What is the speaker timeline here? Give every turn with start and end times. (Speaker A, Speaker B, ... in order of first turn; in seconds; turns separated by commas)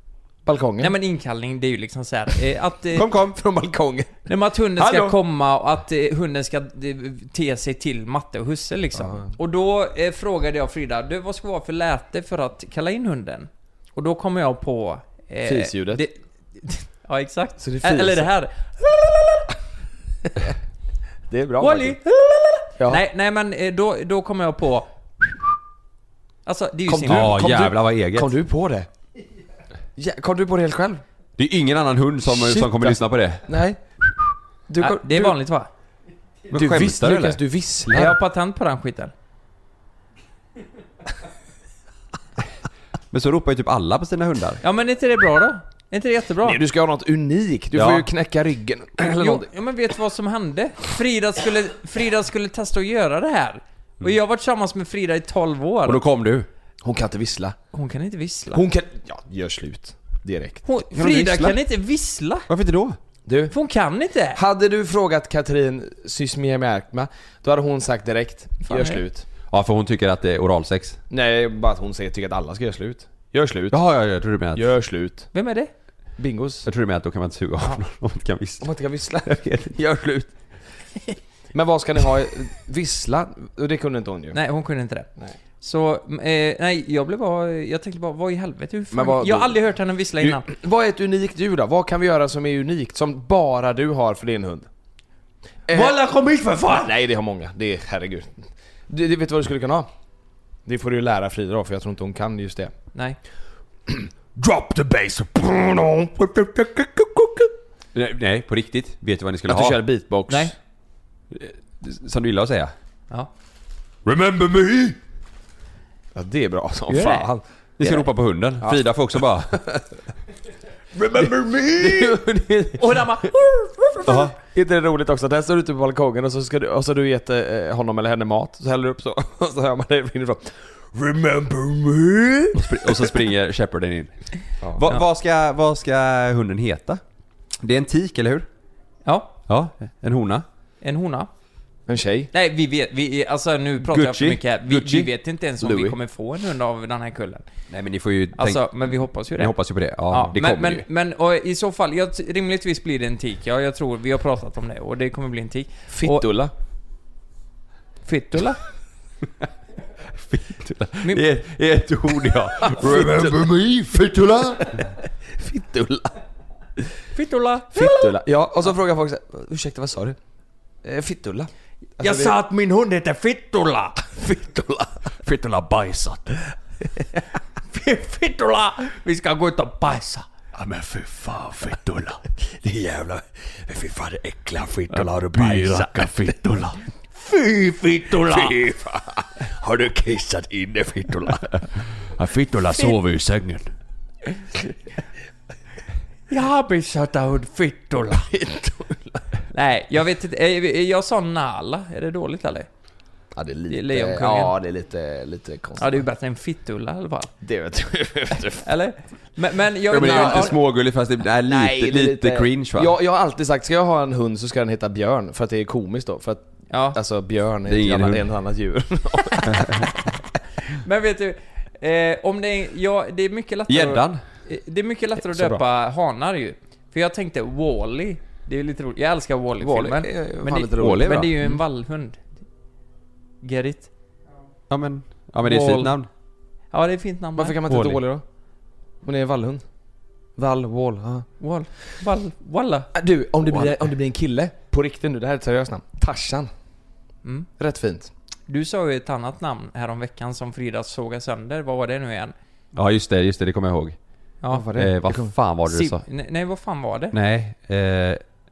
Speaker A: 0.5-0.9, Speaker B: 0.8-3.1, Speaker A: 2.9-5.2, Speaker B: 4.3-19.5, Speaker A: 9.0-9.3, Speaker A: 15.4-16.0, Speaker A: 17.6-18.3, Speaker A: 21.3-22.0, Speaker B: 21.6-24.9, Speaker B: 26.5-27.4, Speaker A: 26.9-28.9, Speaker C: 27.1-28.3, Speaker A: 30.0-31.0, Speaker C: 31.4-33.5, Speaker A: 32.3-33.8, Speaker A: 34.7-35.4, Speaker B: 34.8-35.7, Speaker C: 36.5-37.4, Speaker A: 36.5-38.2, Speaker B: 37.9-39.1, Speaker C: 43.1-44.6, Speaker B: 44.6-46.6, Speaker A: 46.4-49.5, Speaker C: 47.7-48.1, Speaker B: 49.0-56.0, Speaker C: 55.9-56.5, Speaker A: 56.8-57.6, Speaker B: 57.7-58.6, Speaker A: 58.5-60.6, Speaker B: 60.6-62.5, Speaker C: 60.9-61.6, Speaker C: 62.5-63.0, Speaker A: 63.3-63.5, Speaker B: 63.5-64.4, Speaker A: 64.3-69.3, Speaker B: 68.7-69.0, Speaker C: 69.5-71.0, Speaker A: 71.1-73.8, Speaker C: 73.7-74.7, Speaker A: 74.5-75.3, Speaker B: 75.3-75.7, Speaker A: 76.2-76.7, Speaker C: 76.7-78.7, Speaker A: 78.6-80.3, Speaker C: 79.2-79.8, Speaker A: 81.5-84.4, Speaker B: 84.3-85.1, Speaker B: 85.6-90.5, Speaker A: 88.9-89.6, Speaker A: 90.2-94.7, Speaker A: 95.7-96.0, Speaker B: 95.7-96.9, Speaker A: 96.7-99.9, Speaker A: 100.7-102.7, Speaker A: 103.9-107.5, Speaker C: 107.9-109.8, Speaker A: 109.5-110.5, Speaker C: 111.3-112.7, Speaker C: 114.0-115.0, Speaker A: 116.2-117.9, Speaker B: 116.9-117.3, Speaker C: 117.8-119.6, Speaker A: 118.6-119.8, Speaker A: 121.0-123.3, Speaker C: 121.8-122.1, Speaker B: 122.8-124.2, Speaker A: 123.9-133.2, Speaker C: 124.1-124.3, Speaker C: 132.5-134.1, Speaker C: 134.7-137.0, Speaker C: 137.6-138.5, Speaker B: 139.1-139.3, Speaker C: 139.5-140.5, Speaker B: 140.8-141.3, Speaker A: 141.9-142.3, Speaker B: 142.3-147.4, Speaker C: 143.8-145.1, Speaker A: 145.6-145.9, Speaker C: 147.7-148.7, Speaker B: 148.4-149.6, Speaker C: 149.3-150.8, Speaker B: 150.1-156.2, Speaker A: 155.9-156.5, Speaker B: 158.1-158.6, Speaker C: 160.1-164.7, Speaker A: 162.6-166.2, Speaker B: 167.1-168.1, Speaker A: 167.7-170.2, Speaker A: 170.8-172.4, Speaker B: 172.0-174.1, Speaker A: 174.2-175.1, Speaker C: 175.3-176.3, Speaker B: 177.7-180.3, Speaker C: 180.6-182.2, Speaker D: 182.7-183.0, Speaker D: 183.7-184.8, Speaker C: 184.9-186.8, Speaker B: 185.5-186.1, Speaker B: 187.2-188.6, Speaker A: 188.3-189.3, Speaker D: 189.6-190.7, Speaker C: 192.2-193.7, Speaker D: 192.4-193.4, Speaker B: 196.3-198.3, Speaker A: 198.1-199.3, Speaker B: 199.5-202.7, Speaker A: 203.3-206.0, Speaker B: 203.7-204.6, Speaker B: 205.8-207.3, Speaker A: 207.4-208.7, Speaker B: 208.6-210.6, Speaker C: 209.9-212.9, Speaker A: 209.9-210.7, Speaker A: 211.4-219.9, Speaker B: 216.7-217.0, Speaker C: 217.7-218.3, Speaker C: 219.5-219.9, Speaker B: 220.7-232.2, Speaker C: 223.7-224.2, Speaker A: 225.3-225.6, Speaker A: 229.6-231.3, Speaker C: 230.6-231.4, Speaker B: 233.4-233.9, Speaker C: 234.7-236.1, Speaker B: 235.4-235.9, Speaker B: 236.7-237.6, Speaker A: 237.4-238.2, Speaker C: 237.7-238.0, Speaker A: 239.0-239.6, Speaker A: 240.4-241.3, Speaker B: 241.4-242.9, Speaker A: 242.9-246.5, Speaker A: 247.6-248.1, Speaker B: 248.5-252.3, Speaker C: 252.8-254.0, Speaker A: 254.5-255.3, Speaker C: 254.8-256.0, Speaker B: 255.7-257.2, Speaker C: 257.1-258.2